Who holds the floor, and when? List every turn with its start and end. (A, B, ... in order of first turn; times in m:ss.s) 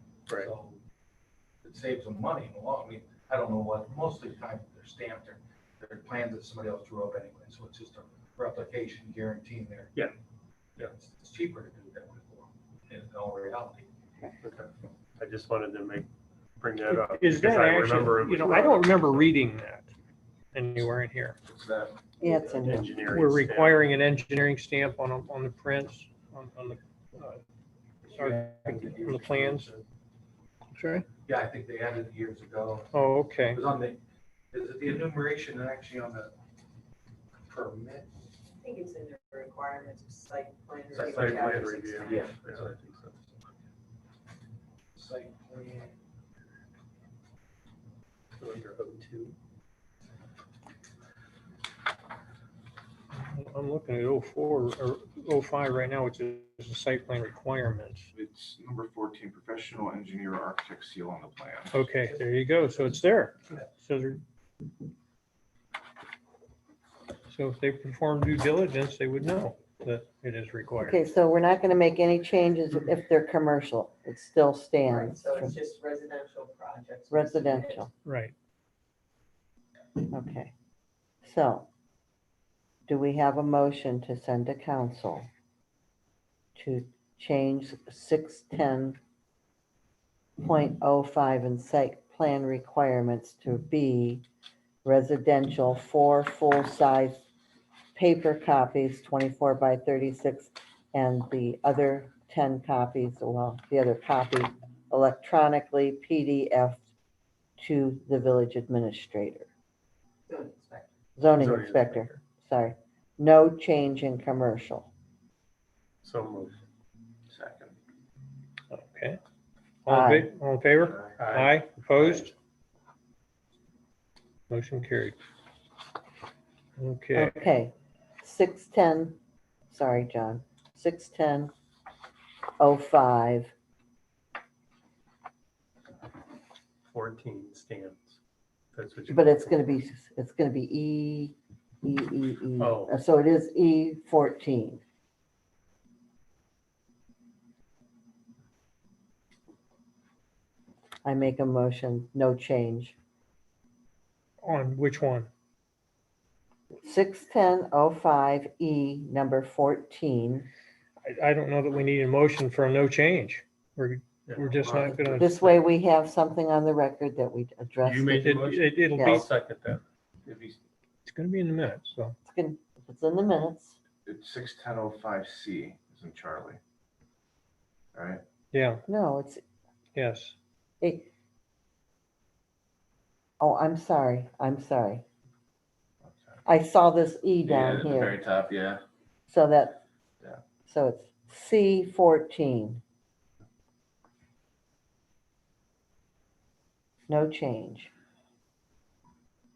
0:00.3-0:00.8 A
0:01.6-0:10.0 A
0:10.8-0:13.9 A
0:14.4-0:16.1 B
0:16.6-0:19.3 B
0:16.8-0:19.9 C
0:20.5-0:21.4 C
0:21.5-0:22.0 D
0:22.2-0:22.9 E
0:22.2-0:22.8 F
0:22.6-0:23.9 B
0:23.0-0:27.4 C
0:28.0-0:29.8 A
0:28.1-0:29.7 C
0:30.7-0:31.0 C
0:31.2-0:34.0 A
0:32.9-0:33.6 C
0:34.5-0:36.3 A
0:37.5-0:38.1 A
0:38.6-0:42.3 F
0:40.9-0:42.8 A
0:40.9-0:43.2 B
0:45.0-0:45.9 A
0:48.4-0:49.4 B
0:53.1-0:58.1 C
0:58.1-1:01.8 D
1:01.7-1:04.2 C
1:07.3-1:11.0 C
1:10.8-1:15.6 E
1:14.8-1:17.9 F
1:17.1-1:17.9 E
1:18.0-1:18.3 C
1:20.0-1:20.5 E
1:21.2-1:21.6 E
1:22.9-1:25.3 E
1:26.6-1:29.0 E
1:30.4-1:34.2 E
1:34.8-1:37.3 E
1:37.9-1:46.9 E
1:47.6-1:49.5 E
1:50.3-1:50.9 F
1:51.2-1:54.9 E
1:51.4-1:52.2 B
1:56.0-1:56.6 B
1:57.3-1:57.7 D
1:58.7-1:59.2 C
1:59.8-2:02.3 C
1:59.9-2:00.3 E
2:01.2-2:02.3 B
2:04.5-2:05.2 C
2:06.8-2:07.4 C
2:07.1-2:09.2 E
2:09.7-2:11.5 E
2:12.6-2:13.5 E
2:16.9-2:18.2 B
2:18.7-2:19.6 B
2:19.1-2:24.8 E
2:22.6-2:23.0 B
2:31.0-2:32.9 E
2:34.4-2:35.3 C
2:36.8-2:40.5 E
2:41.0-2:45.6 C
2:44.2-2:45.3 B
2:45.1-2:48.2 E
2:47.8-2:49.8 B
2:48.1-2:49.3 C
2:49.0-2:49.2 E
2:50.2-2:50.6 D
2:51.0-2:52.2 C
2:52.3-2:53.7 E
2:54.0-2:56.6 D
2:57.9-2:58.2 D
2:58.5-2:58.8 C
2:58.9-2:59.4 E
3:00.0-3:00.3 C
3:00.8-3:01.1 E
3:03.4-3:05.0 E
3:06.4-3:08.2 E
3:07.4-3:08.8 D
3:09.3-3:09.8 E
3:10.7-3:12.8 E
3:17.1-3:17.9 E